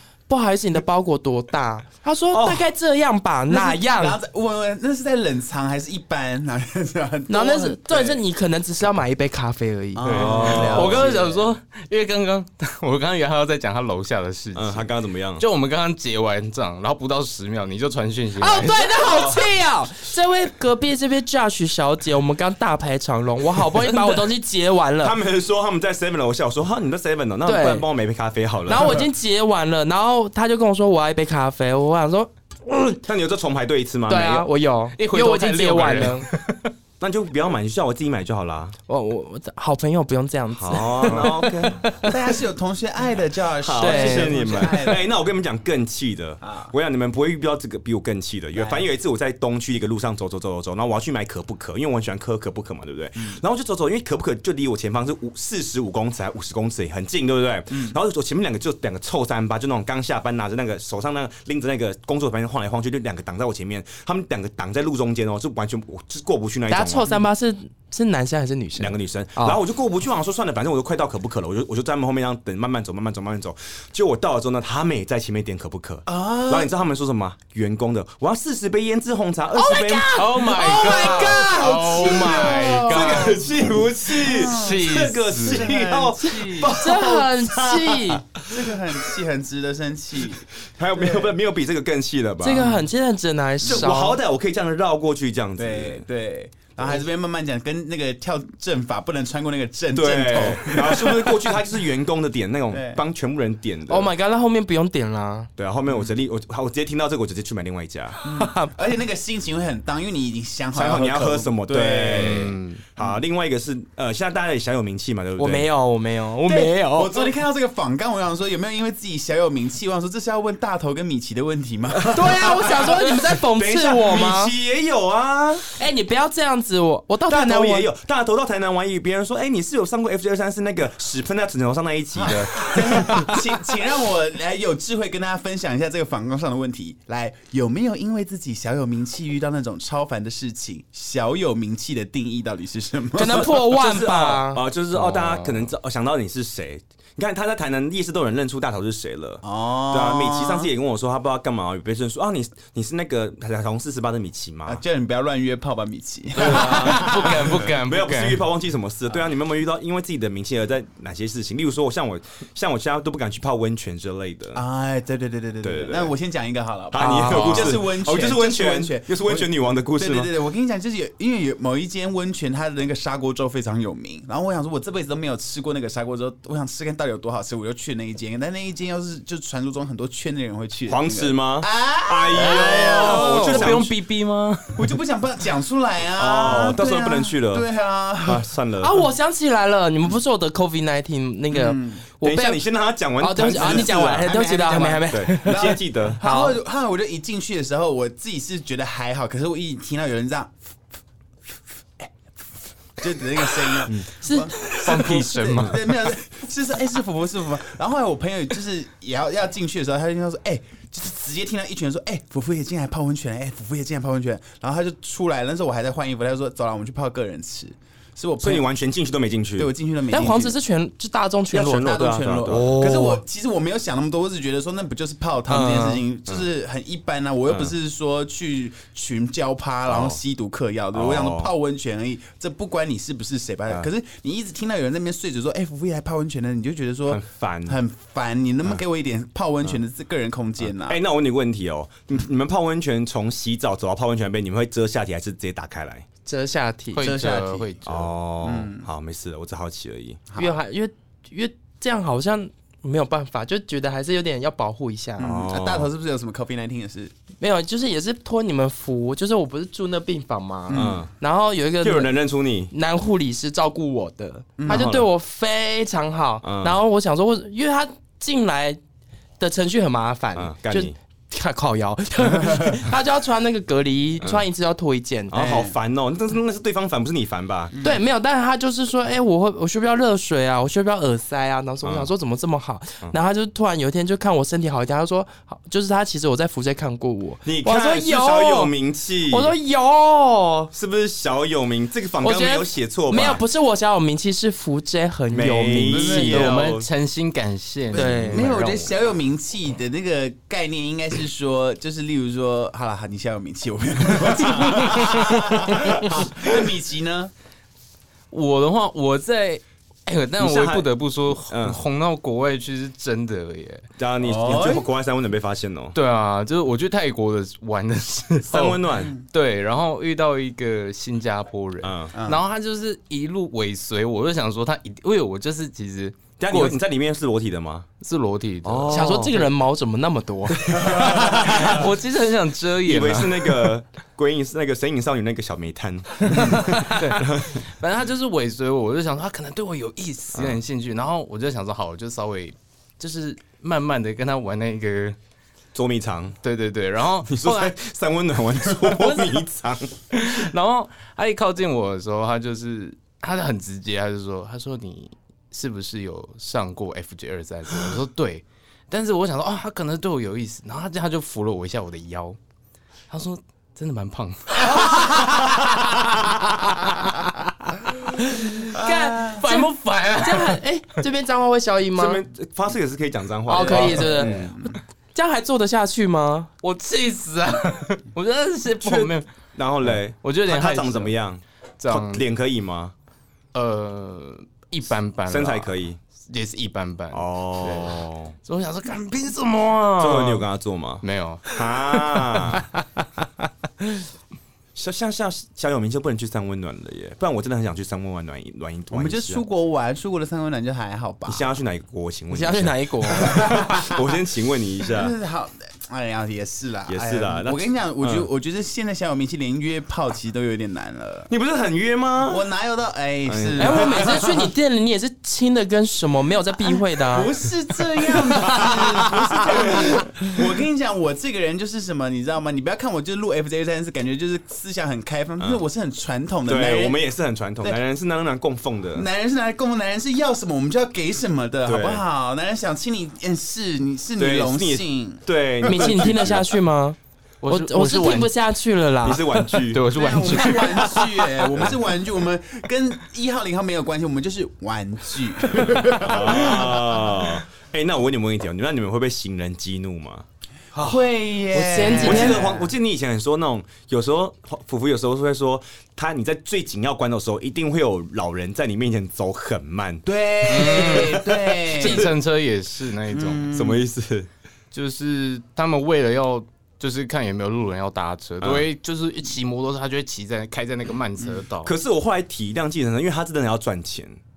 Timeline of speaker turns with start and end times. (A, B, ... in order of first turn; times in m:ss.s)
0:00.3-0:04.2 A
0:02.3-0:02.7 B
0:03.5-0:08.2 C
0:07.3-0:10.5 A
0:10.0-0:11.5 C
0:10.0-0:19.1 D
0:10.1-0:11.1 B
0:14.6-0:15.4 B
0:18.4-0:25.2 A
0:19.1-0:19.4 C
0:25.0-0:29.0 B
0:27.4-0:27.9 A
0:28.7-0:33.0 A
0:33.0-0:34.5 B
0:34.1-0:36.3 A
0:35.0-0:36.7 D
0:37.0-0:38.7 B
0:38.9-0:42.2 A
0:40.5-0:41.9 B
0:42.0-0:45.1 C
0:43.6-1:07.1 B
0:43.8-0:44.9 A
0:46.4-0:46.7 C
0:48.5-0:48.8 C
0:57.7-0:58.0 C
1:06.7-1:09.6 A
1:08.8-1:20.5 B
1:16.1-1:16.7 C
1:19.6-1:23.2 A
1:20.1-1:23.4 D
1:20.9-1:23.4 C
1:22.8-1:28.5 B
1:24.1-1:26.8 C
1:24.2-1:25.7 D
1:26.2-1:28.2 A
1:28.4-1:31.3 C
1:30.7-1:32.7 B
1:32.4-1:34.2 A
1:32.5-1:32.9 C
1:33.6-1:36.0 B
1:35.6-1:41.5 C
1:40.0-1:44.1 B
1:42.7-1:43.0 C
1:43.9-1:45.5 A
1:45.6-1:48.2 B
1:48.2-1:53.2 C
1:48.3-1:48.7 A
1:50.7-1:55.7 B
1:52.2-1:52.8 D
1:55.4-1:57.3 A
1:56.4-2:03.1 C
2:02.1-2:04.5 A
2:02.4-2:05.7 B
2:05.8-2:07.9 A
2:07.3-2:13.2 B
2:12.2-2:23.6 C
2:12.2-2:13.2 D
2:23.2-2:24.6 A
2:23.4-2:34.8 B
2:24.9-2:25.7 D
2:29.4-2:30.7 C
2:34.7-2:37.6 C
2:36.4-2:44.6 B
2:36.4-2:38.4 D
2:44.5-3:03.8 C
2:45.6-2:46.1 B
2:46.9-2:50.3 B
3:00.9-3:03.9 B
3:02.4-3:04.9 D
3:04.7-3:08.5 C
3:06.2-3:07.7 B
3:08.2-3:09.0 B
3:08.8-3:12.6 A
3:11.5-3:12.0 C
3:12.2-3:14.3 B
3:13.2-3:16.6 A
3:13.5-3:20.6 C
3:15.1-3:16.2 B
3:22.0-3:22.4 C
3:23.0-3:38.7 C
3:24.2-3:25.4 A
3:24.6-3:25.9 D
3:38.4-3:39.7 B
3:39.6-3:40.6 C
3:40.1-3:43.2 A
3:41.5-3:43.0 B
3:41.7-4:01.0 C
3:45.5-3:46.0 A
3:49.9-3:50.2 B
3:50.9-3:51.5 B
3:57.1-3:57.8 B
4:00.8-4:06.0 B
4:06.2-4:07.1 A
4:06.9-4:08.1 D
4:07.0-4:07.7 C
4:07.8-4:10.2 B
4:08.4-4:08.9 C
4:10.3-4:10.6 C
4:10.4-4:15.3 A
4:15.2-4:17.1 C
4:15.2-4:15.9 B
4:17.4-4:22.2 A
4:20.7-4:21.0 C
4:20.7-4:21.1 B
4:21.8-4:22.7 B
4:22.7-4:28.8 A
4:24.6-4:24.9 C
4:24.7-4:25.1 B
4:26.4-4:26.8 B
4:29.4-4:35.5 A
4:30.4-4:31.0 B
4:35.3-4:37.8 B
4:35.4-4:35.8 C
4:37.7-4:38.0 C
4:37.8-4:48.7 A
4:41.8-4:42.1 B
4:47.4-4:49.5 B
4:49.3-4:50.7 A
4:50.7-4:53.4 B
4:52.2-4:56.5 A
4:55.3-4:56.9 B
4:55.7-4:56.5 C
4:56.2-4:58.9 D
4:57.9-5:07.3 C
4:57.9-4:58.5 A
5:08.3-5:13.9 D
5:10.4-5:10.9 B
5:11.5-5:11.8 B
5:14.0-5:16.0 B
5:14.2-5:14.9 C
5:16.0-5:26.8 D
5:18.5-5:19.2 B
5:21.8-5:22.1 B
5:22.1-5:22.4 C
5:26.4-5:27.9 B
5:28.0-5:29.5 D
5:28.6-5:29.4 B
5:28.9-5:31.7 A
5:30.6-5:31.9 B
5:30.9-5:31.2 C
5:30.9-5:33.7 D
5:32.8-5:37.6 B
5:36.3-5:45.2 D
5:45.8-5:46.4 B
5:46.4-5:47.8 D
5:47.2-5:50.0 B
5:48.8-5:49.4 D
5:50.1-6:02.4 D
6:03.1-6:10.6 D
6:08.4-6:12.2 A
6:08.8-6:09.4 C
6:12.0-6:14.6 B
6:13.5-6:16.5 A
6:13.6-6:14.8 C
6:16.6-6:19.3 D
6:18.8-6:22.9 B
6:19.8-6:21.2 D
6:21.8-6:22.2 D
6:23.5-6:25.8 D
6:25.3-6:26.0 B
6:26.3-6:30.5 D
6:27.1-6:28.3 B
6:30.0-6:32.7 B
6:31.0-6:31.6 D
6:34.8-6:39.4 B
6:38.9-6:41.4 C
6:41.3-6:45.1 B
6:42.3-6:43.9 A
6:43.2-6:43.8 C
6:44.9-6:51.3 C
6:46.9-6:48.3 B
6:51.3-6:52.4 B
6:52.3-6:54.5 C
6:53.3-6:54.3 B
6:53.6-6:57.3 A
6:56.9-7:07.0 C
6:58.4-6:58.8 B
6:59.6-6:59.9 B
7:06.5-7:09.1 B
7:08.9-7:16.4 C
7:11.7-7:12.0 B
7:14.2-7:16.5 B
7:15.6-7:17.0 A
7:17.4-7:18.3 D
7:17.5-7:19.3 A
7:19.0-7:19.8 B
7:19.5-7:21.5 D
7:19.9-7:27.1 C
7:25.7-7:30.2 B
7:30.8-7:32.7 C
7:31.5-7:32.5 A
7:32.0-7:41.2 B
7:40.0-7:42.1 C
7:40.5-7:43.5 D
7:43.1-7:43.8 C
7:43.5-7:44.3 B
7:44.7-7:51.7 D
7:51.6-7:54.2 B